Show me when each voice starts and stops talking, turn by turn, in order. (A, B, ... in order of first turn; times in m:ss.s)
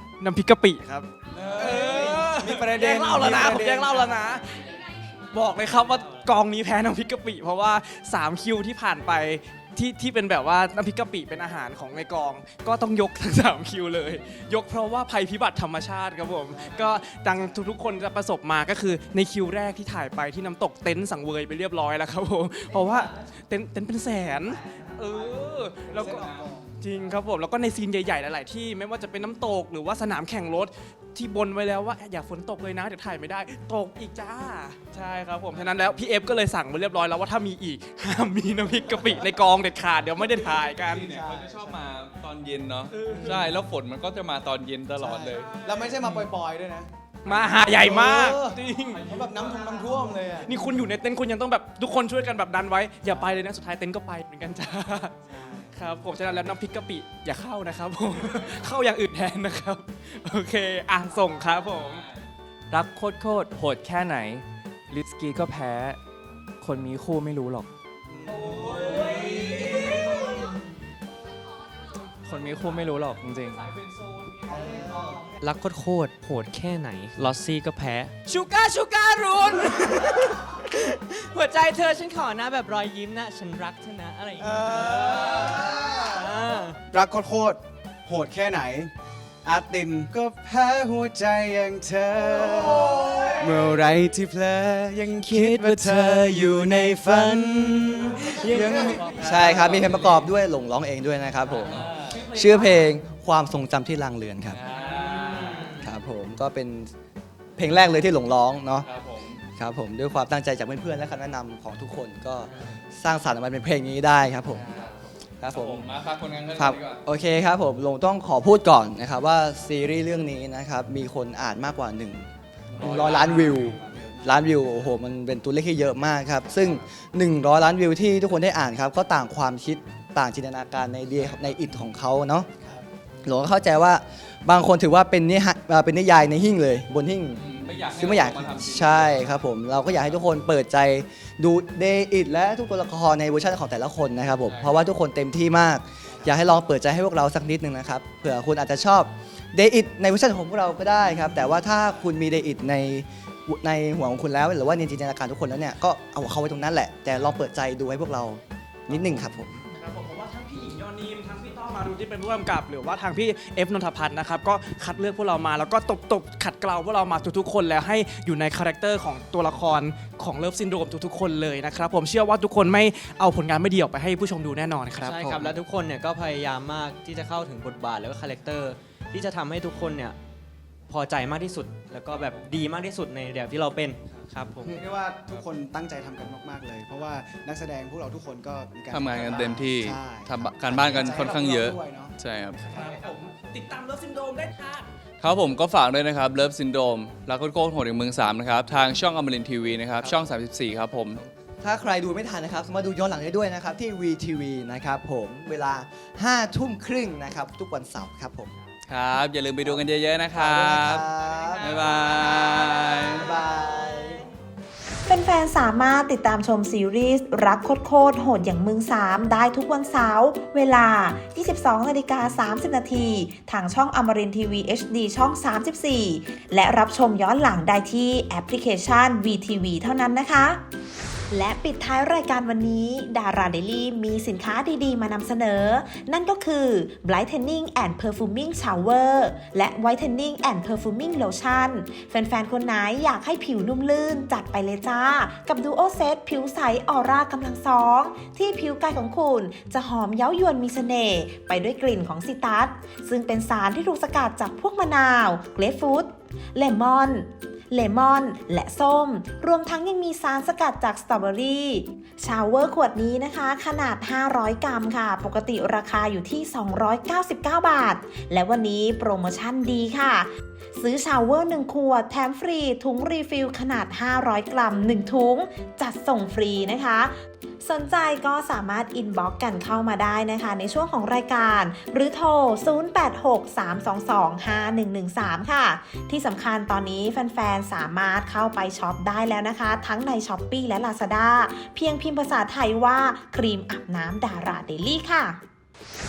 0:00.2-0:41.1 A
0:01.3-0:04.2 B
0:05.6-0:06.3 C
0:16.4-0:17.7 B
0:25.8-0:27.0 B
0:26.1-0:26.4 D
0:40.8-0:45.5 D
0:41.1-0:41.8 B
0:42.9-0:43.4 A
0:43.1-0:43.5 B
0:45.0-0:50.6 B
0:45.6-0:46.3 A
0:47.2-0:49.6 A
0:50.4-0:55.2 A
0:53.1-0:53.4 B
0:55.3-0:55.7 B
0:55.7-1:02.0 A
1:01.4-1:02.2 D
1:02.7-1:06.0 E
1:06.6-1:07.7 E
1:08.2-1:08.8 B
1:08.4-1:10.2 D
1:08.9-1:09.3 C
1:09.9-1:10.5 C
1:12.2-1:13.7 E
1:13.7-1:14.5 A
1:14.5-1:26.8 C
1:24.4-1:26.1 B
1:26.9-1:28.9 B
1:29.4-1:39.8 B
1:32.5-1:33.4 F
1:35.6-1:36.0 F
1:38.2-1:39.1 C
1:39.1-1:40.3 D
1:39.1-1:44.6 F
1:41.5-1:42.2 D
1:42.1-1:42.8 C
1:44.5-1:45.8 D
1:44.7-1:45.8 C
1:45.8-1:46.9 F
1:47.6-1:48.9 F
1:48.8-1:49.4 D
1:49.6-1:54.7 F
1:54.5-1:57.0 D
1:55.4-1:55.9 F
1:56.6-2:02.3 F
2:02.8-2:03.8 D
2:02.8-2:12.5 F
2:03.8-2:04.3 B
2:13.2-2:39.6 F
2:17.4-2:19.4 D
2:24.4-2:24.9 D
2:39.8-2:55.6 A
2:55.0-3:00.2 C
3:00.9-3:04.8 C
3:02.1-3:02.6 D
3:04.6-3:12.2 B
3:08.9-3:12.7 D
3:12.6-3:14.9 A
3:15.2-3:21.3 D
3:21.6-3:28.6 F
3:28.9-3:31.0 D
3:29.6-3:32.2 F
3:31.6-3:33.4 D
3:32.7-3:34.2 F
3:35.1-3:50.6 G
3:51.3-4:55.4 G